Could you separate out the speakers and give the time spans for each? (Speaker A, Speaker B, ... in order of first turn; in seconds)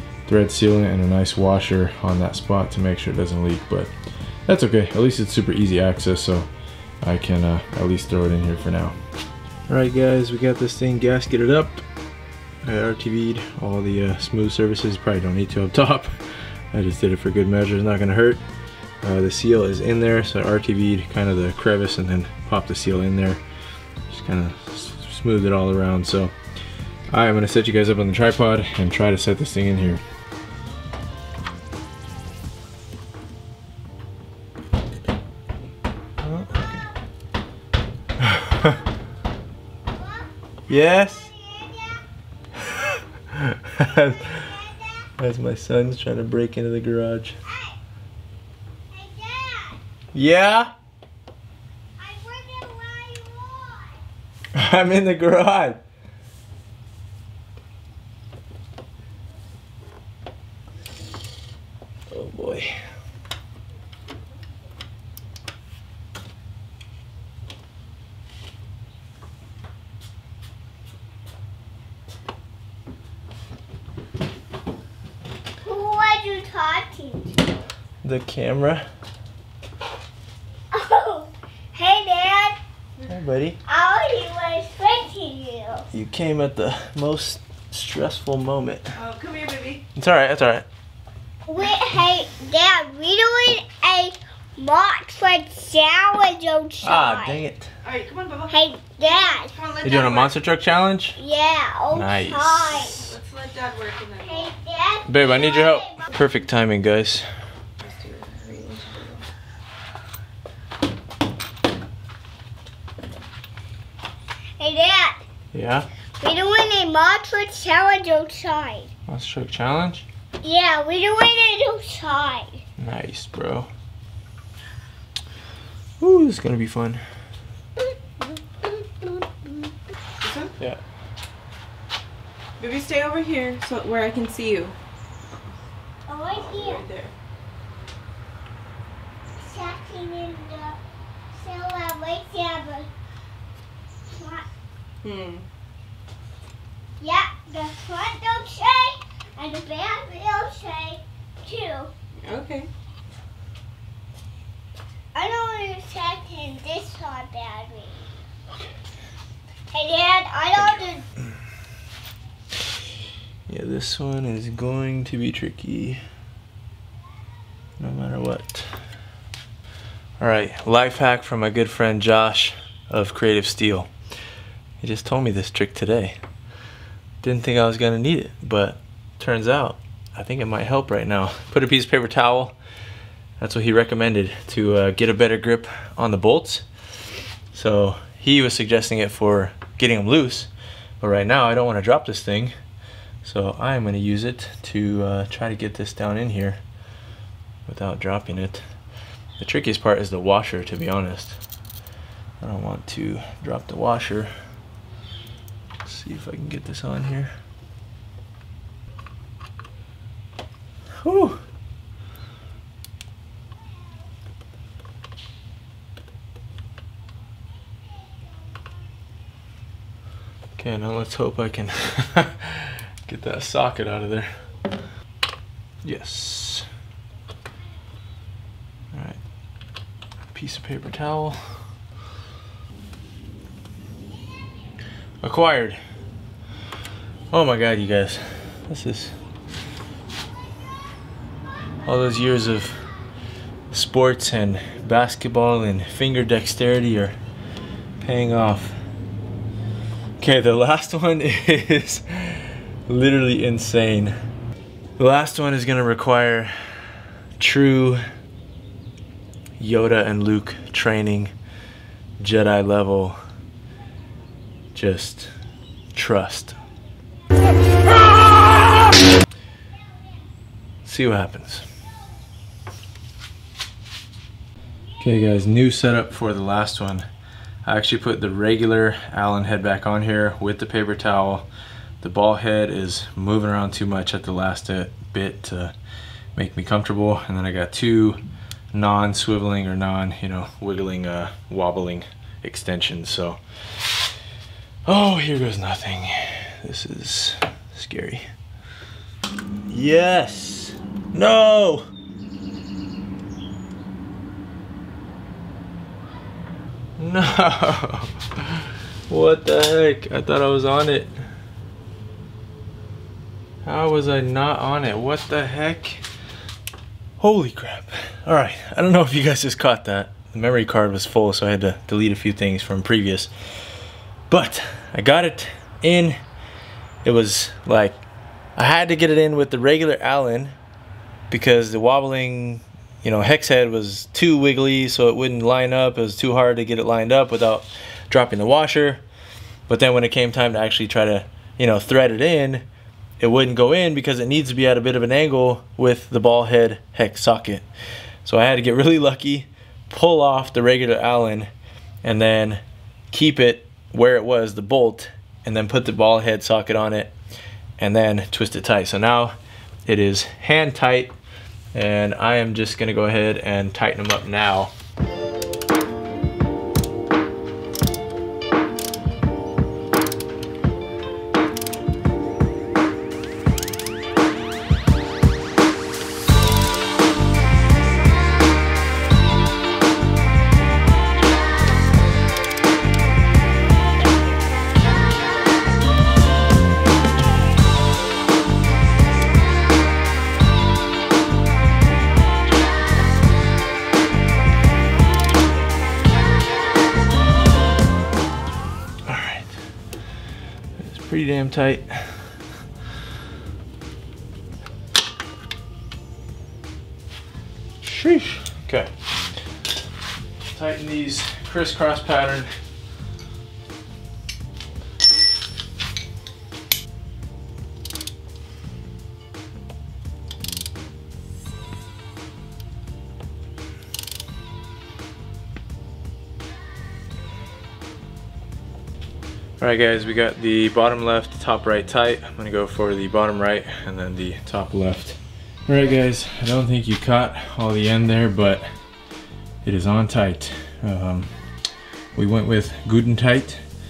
Speaker A: 0.2-3.9, 4.5-6.5, 7.0-9.0, 9.7-11.8, 12.6-16.2, 16.7-18.4, 19.0-23.4, 24.1-26.3, 27.1-30.0, 36.2-36.9, 38.2-38.8, 40.7-41.3, 42.6-44.5, 45.2-47.4, 50.1-50.7, 54.5-55.8, 62.1-62.8, 78.0-78.9, 83.1-83.6, 85.9-88.9, 89.9-90.7, 96.8-97.7, 99.8-101.2, 101.9-103.1, 105.0-107.3, 115.5-115.8, 119.1-120.0, 122.8-123.7, 126.0-127.0, 158.5-158.7, 160.6-160.8, 163.5-166.0, 167.8-168.7, 170.2-173.9, 174.8-176.2, 177.2-182.5, 183.4-186.6, 187.5-192.5, 193.2-196.6, 197.7-198.6, 199.4-201.4, 202.4-204.3, 205.8-207.3, 211.0-211.4, 220.6-224.3, 225.8-226.7, 228.9-229.2, 230.3-231.6, 235.2-235.8, 237.3-239.2, 241.8-242.8, 243.7-247.2, 248.0-248.8, 250.2-254.1, 255.0-256.5, 257.4-258.0, 259.6-261.3, 262.2-263.2, 264.7-265.3, 265.9-266.6, 270.8-271.6, 275.0-277.1, 277.6-281.5, 282.0-285.7, 286.4-288.2, 288.7-293.9, 294.9-298.3, 299.7-301.9, 307.0-311.1, 313.6-316.0, 317.2-323.3, 324.3-326.2, 327.0-328.0, 328.6-330.5, 331.3-339.0, 339.7-342.6, 343.2-347.7, 348.2-351.5, 352.0-357.1, 357.8-361.1, 361.7-364.7, 399.0-399.6, 400.8-402.4, 407.8-408.9, 410.5-412.5, 429.6-438.7, 439.6-441.3, 442.1-443.6
Speaker B: 39.9-40.3, 41.1-42.0, 43.9-45.0, 47.5-47.7, 48.9-49.8, 52.0-54.0, 75.6-77.5, 80.7-82.6, 83.7-85.8, 91.5-97.4, 98.5-99.5, 101.2-102.9, 104.2-106.0, 114.6-115.2, 116.2-118.9, 120.4-122.6, 136.1-136.8, 139.4-140.8, 141.3-142.9, 144.1-144.4, 147.0-151.9, 155.1-158.0, 159.7-161.0
Speaker C: 88.9-89.8, 97.8-100.3, 102.9-104.5, 107.8-109.2, 130.2-130.5, 132.6-134.7, 136.3-137.1, 145.0-145.4, 152.2-152.7